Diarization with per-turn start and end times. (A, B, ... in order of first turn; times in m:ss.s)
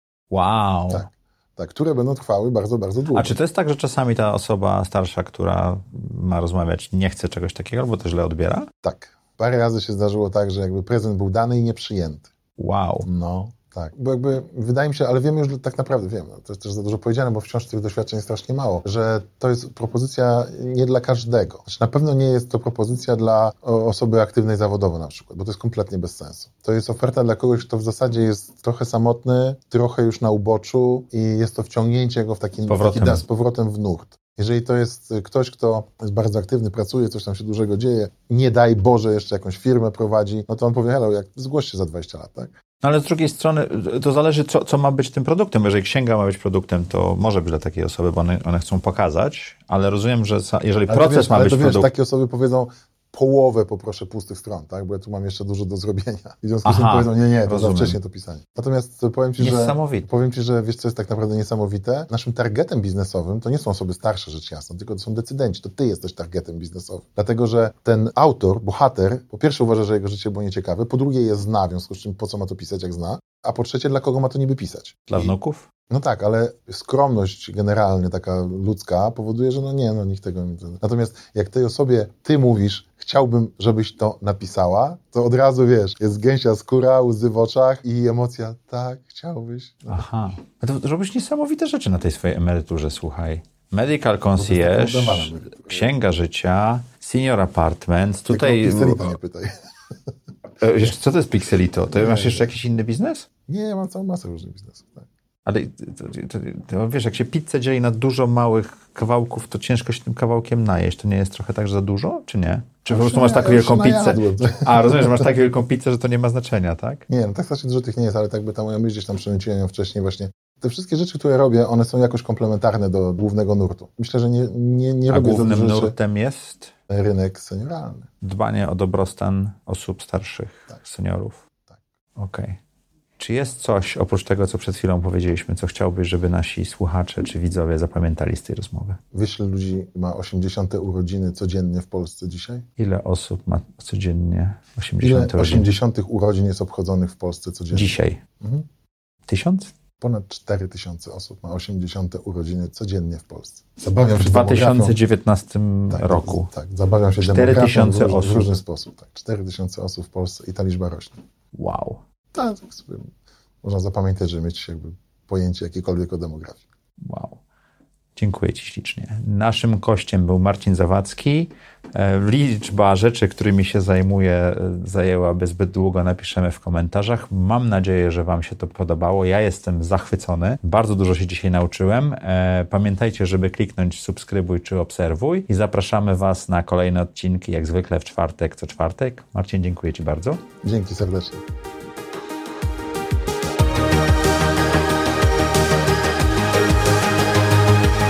0:00.3-0:01.0 A
0:00.9-0:03.4 B
0:03.2-0:08.7 A
0:08.8-0:12.3 B
0:12.6-0:13.1 A
0:13.0-0:42.5 B
0:32.7-0:33.2 A
0:42.8-0:51.9 A
0:50.9-1:15.3 B
0:56.6-0:58.0 A
0:59.4-1:00.1 A
1:15.1-1:15.7 A
1:15.9-1:30.0 B
1:29.9-1:39.1 A
1:34.4-1:35.8 B
1:38.3-1:39.5 B
1:40.6-1:43.3 A
1:42.0-1:42.5 B
1:43.5-1:45.1 B
1:45.5-1:57.0 A
1:52.9-1:55.3 B
1:57.1-2:06.0 B
2:05.1-2:06.7 A
2:06.9-2:08.1 B
2:08.2-2:11.4 A
2:12.2-2:12.6 A
2:13.2-2:19.0 A
2:19.1-2:22.7 B
2:22.8-2:25.7 A
2:25.0-2:28.7 B
2:27.7-2:28.2 A
2:29.3-2:29.7 A
2:30.0-2:35.0 B
2:34.2-2:36.5 A
2:35.9-2:41.2 B
2:37.2-2:38.5 A
2:41.5-2:42.0 A
2:42.3-2:43.1 B
2:43.6-2:46.6 B
2:47.0-2:47.4 A
2:48.2-3:10.4 A
3:10.6-3:11.4 B